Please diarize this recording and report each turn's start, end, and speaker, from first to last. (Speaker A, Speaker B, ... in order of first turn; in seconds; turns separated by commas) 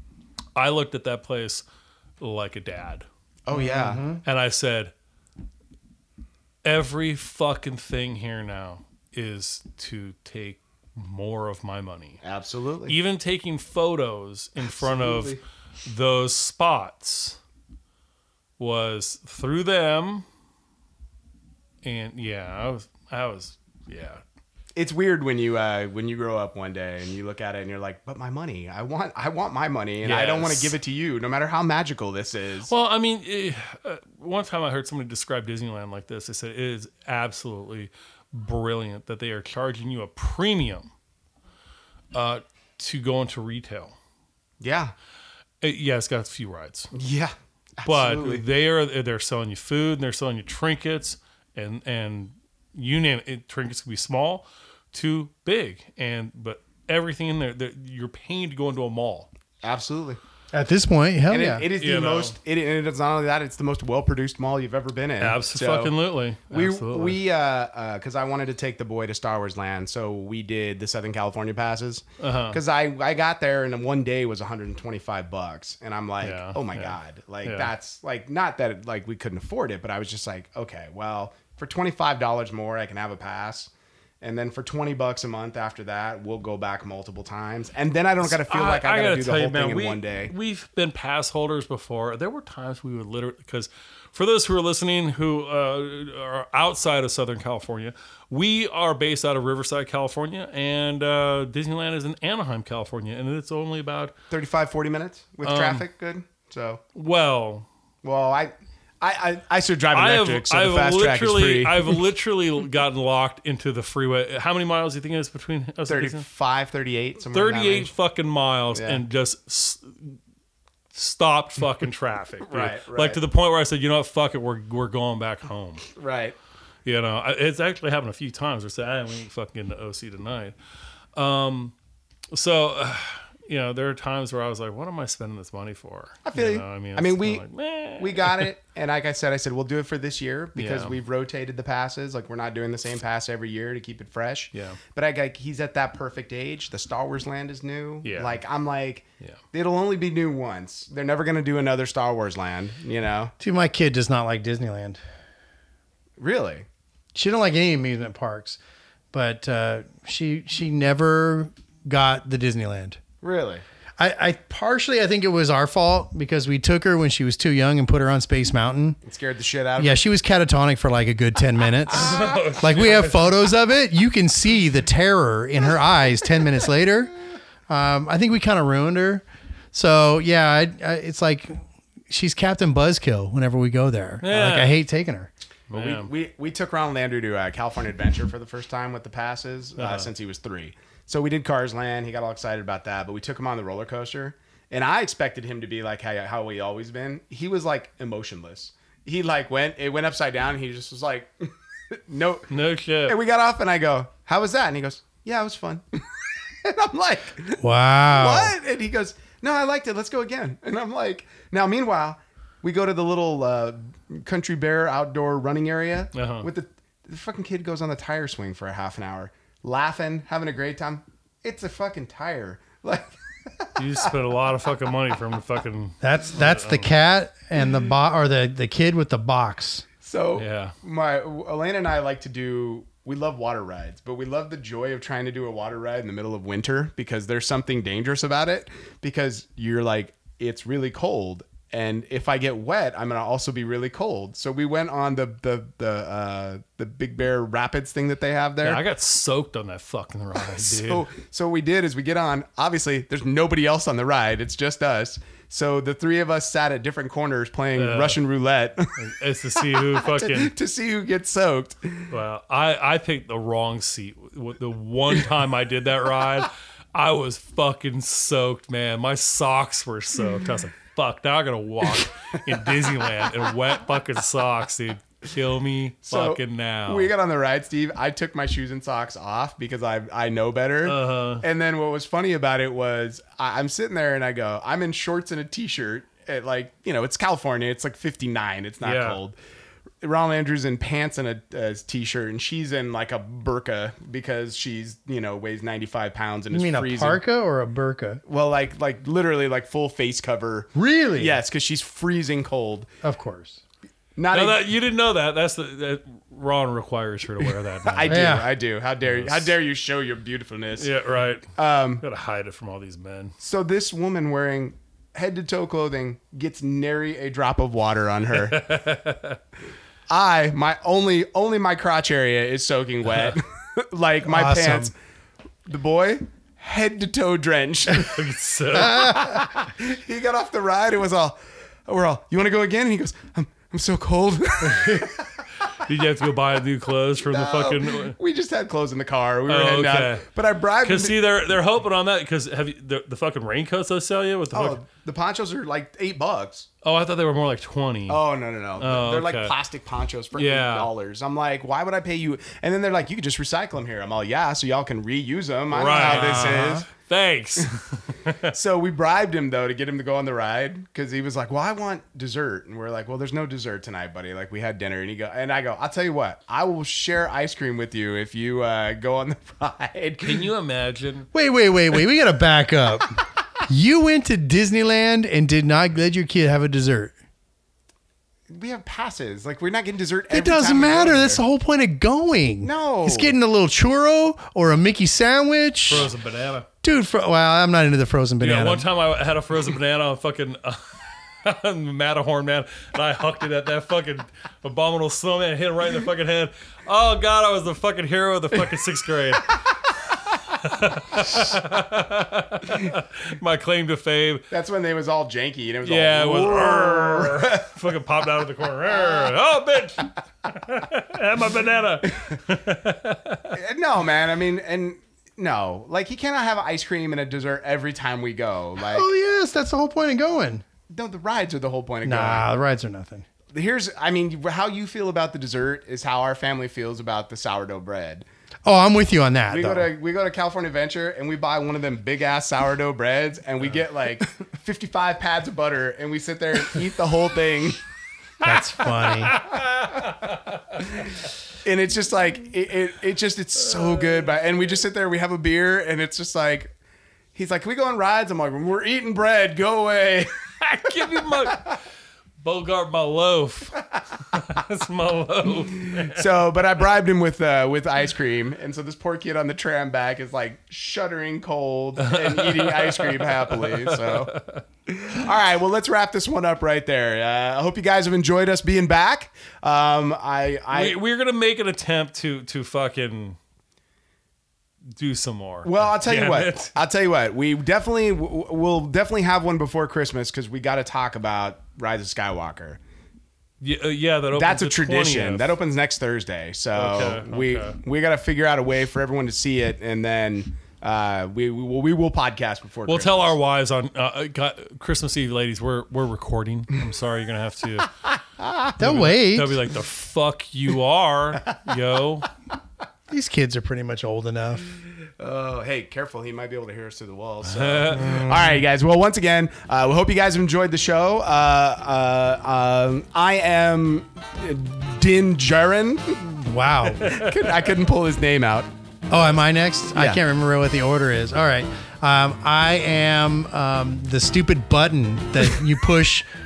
Speaker A: 0.6-1.6, Speaker A: 2.2-3.0, Speaker B: 3.5-4.1, Speaker C: 3.5-4.2, Speaker A: 4.2-4.9, Speaker A: 6.6-12.2, Speaker B: 12.2-13.0, Speaker A: 12.9-17.4, Speaker B: 14.6-15.4, Speaker A: 18.6-20.2, Speaker A: 21.8-24.2, Speaker B: 24.8-32.7, Speaker A: 30.0-30.8, Speaker A: 32.7-40.9, Speaker A: 42.1-44.0, Speaker B: 44.6-44.9, Speaker A: 45.6-46.9, Speaker B: 46.9-48.4, Speaker A: 47.9-59.3, Speaker B: 59.6-60.2, Speaker C: 60.5-61.7, Speaker B: 61.3-66.0, Speaker A: 61.8-62.4, Speaker A: 65.2-67.2, Speaker B: 66.5-90.3, Speaker A: 72.2-72.6, Speaker A: 76.2-77.7, Speaker A: 88.2-104.1, Speaker B: 104.3-106.8, Speaker A: 105.4-105.8, Speaker A: 107.0-107.7, Speaker B: 108.0-112.0, Speaker A: 109.9-116.2, Speaker B: 115.9-117.9, Speaker A: 117.3-120.2, Speaker B: 118.7-119.0, Speaker A: 120.9-125.8, Speaker B: 122.4-123.2, Speaker B: 126.0-126.4, Speaker A: 126.8-130.6, Speaker A: 131.2-131.7, Speaker A: 132.3-138.5, Speaker B: 136.2-137.4, Speaker B: 138.0-153.3, Speaker A: 140.6-141.0, Speaker A: 144.5-144.8, Speaker A: 148.0-148.4, Speaker C: 153.4-155.0, Speaker B: 156.2-156.7, Speaker C: 157.1-158.6, Speaker C: 159.1-163.0, Speaker B: 163.2-163.6, Speaker C: 164.0-169.0, Speaker B: 169.0-170.0, Speaker C: 169.8-177.1, Speaker A: 171.9-173.5, Speaker C: 177.7-185.3, Speaker A: 184.2-184.8, Speaker A: 185.7-186.1, Speaker B: 185.7-202.5, Speaker A: 189.8-190.1, Speaker A: 202.5-203.2, Speaker B: 203.1-206.0, Speaker B: 206.6-223.7, Speaker C: 207.6-208.6, Speaker A: 216.1-216.5, Speaker A: 223.8-226.9, Speaker C: 226.0-229.8, Speaker B: 230.0-248.8, Speaker A: 230.4-230.8, Speaker A: 248.6-251.1, Speaker B: 250.5-258.9, Speaker A: 257.8-258.2, Speaker A: 259.0-260.5, Speaker B: 259.7-262.1, Speaker A: 262.1-277.1, Speaker B: 276.1-289.4, Speaker A: 280.9-281.4, Speaker A: 288.8-289.2, Speaker B: 290.0-297.2, Speaker C: 296.5-298.2, Speaker B: 298.2-302.9, Speaker C: 300.8-301.4, Speaker C: 303.0-303.6, Speaker B: 304.2-304.6, Speaker A: 304.3-308.4, Speaker B: 307.9-310.9, Speaker C: 308.1-308.5, Speaker A: 309.1-309.5, Speaker A: 310.8-313.4, Speaker B: 311.6-312.1, Speaker B: 313.4-318.6, Speaker A: 318.4-319.4, Speaker B: 320.1-324.9, Speaker C: 324.2-324.9, Speaker B: 325.7-328.2, Speaker A: 328.0-329.2, Speaker B: 328.8-335.3, Speaker A: 334.6-335.1, Speaker A: 335.8-338.2, Speaker B: 337.2-341.2, Speaker A: 339.5-340.3, Speaker A: 340.8-344.8, Speaker B: 344.5-346.7, Speaker A: 346.8-348.2, Speaker B: 348.1-356.9, Speaker A: 348.8-349.5, Speaker A: 350.4-350.9, Speaker A: 355.7-358.5, Speaker C: 355.9-356.9, Speaker B: 358.5-370.4, Speaker A: 370.2-371.3, Speaker C: 371.3-377.1, Speaker B: 378.5-381.4, Speaker C: 380.3-386.1, Speaker B: 382.6-383.4, Speaker A: 385.9-386.7, Speaker C: 386.8-388.9, Speaker A: 388.4-399.6, Speaker A: 400.3-404.5, Speaker B: 404.5-407.7, Speaker A: 405.8-413.6, Speaker B: 408.9-409.3, Speaker B: 413.5-419.1, Speaker C: 418.8-420.6, Speaker B: 420.9-422.4, Speaker C: 422.0-423.2, Speaker B: 423.5-428.2, Speaker C: 428.6-429.9, Speaker B: 429.5-437.8, Speaker C: 438.4-439.4, Speaker A: 439.0-440.8, Speaker B: 441.6-446.7, Speaker A: 443.8-444.3, Speaker B: 447.4-450.3, Speaker A: 450.6-451.8, Speaker A: 452.4-456.3, Speaker B: 455.8-464.3, Speaker A: 462.0-464.6, Speaker B: 464.9-471.0, Speaker A: 470.7-473.4, Speaker A: 475.0-476.8, Speaker B: 475.6-482.8, Speaker A: 483.6-485.6, Speaker B: 484.3-493.4, Speaker A: 486.8-487.8, Speaker A: 492.9-497.9, Speaker C: 498.8-499.6, Speaker A: 498.8-502.3, Speaker C: 503.1-504.7, Speaker B: 505.2-516.3, Speaker A: 507.4-508.1, Speaker C: 508.0-508.6, Speaker C: 516.3-517.2, Speaker B: 517.0-518.7, Speaker A: 517.0-517.3, Speaker C: 519.1-526.3, Speaker B: 519.9-520.2